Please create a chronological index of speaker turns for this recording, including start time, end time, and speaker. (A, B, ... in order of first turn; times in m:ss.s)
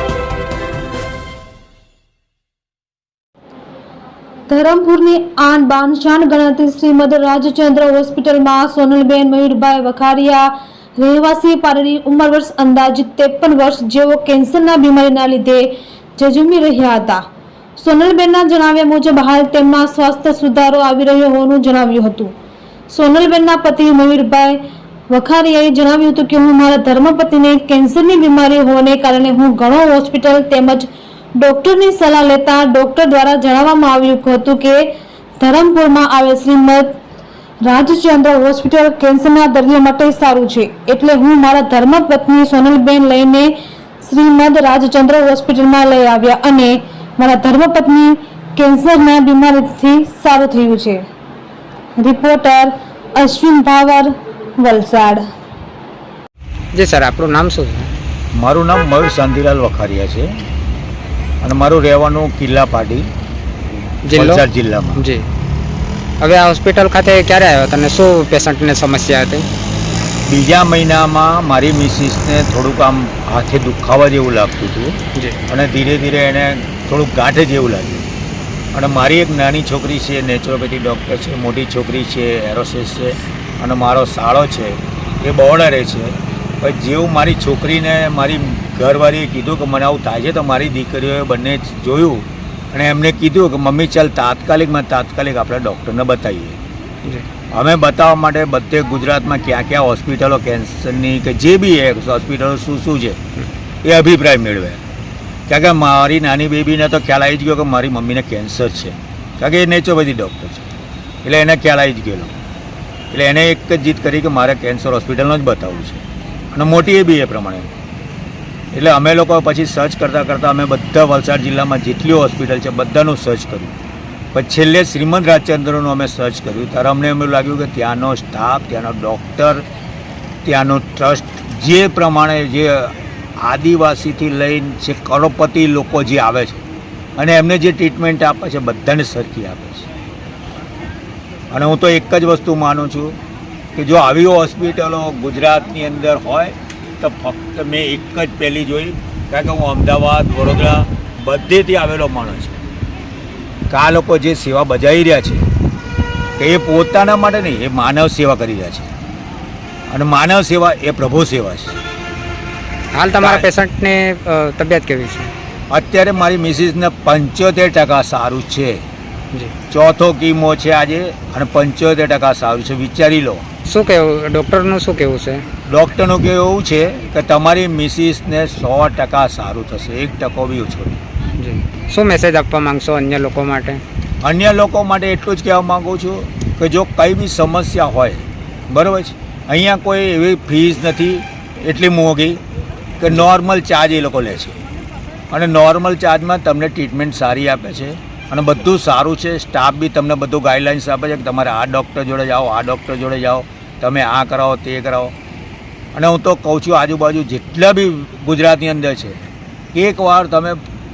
0:04.5-0:17.2 A
0:17.8-0:22.3 A
0:22.9-0:37.0 A
0:37.6-0:51.0 A
0:52.0-0:55.2 A
0:56.7-0:57.9 B
0:58.3-1:00.3 C
1:01.4-1:03.1 C
1:04.0-1:04.4 B
1:04.1-1:05.0 C
1:05.0-1:05.2 B
1:06.2-1:09.5 B
1:10.3-1:15.0 C
1:15.5-1:18.1 C
1:18.7-1:36.6 C
1:37.5-1:43.2 C
1:43.8-1:44.8 C
1:45.5-1:50.7 C
1:51.2-1:52.3 C
1:53.1-1:57.7 C
1:58.7-2:03.7 C
2:04.3-2:09.6 C
2:10.4-2:16.6 C
2:17.2-2:19.9 C
2:21.5-2:23.2 C
2:23.8-2:32.6 C
2:33.7-2:35.4 C
2:36.4-2:38.9 C
2:39.9-2:41.8 C
2:42.9-2:45.3 B
2:43.2-2:43.4 C
2:45.7-2:48.8 C
2:49.7-2:53.4 C
2:53.6-2:55.4 B
2:55.6-3:01.0 C
3:01.4-3:03.8 B
3:04.2-3:12.4 C
3:13.0-3:14.6 C
3:15.3-3:25.1 C
3:25.9-3:30.6 C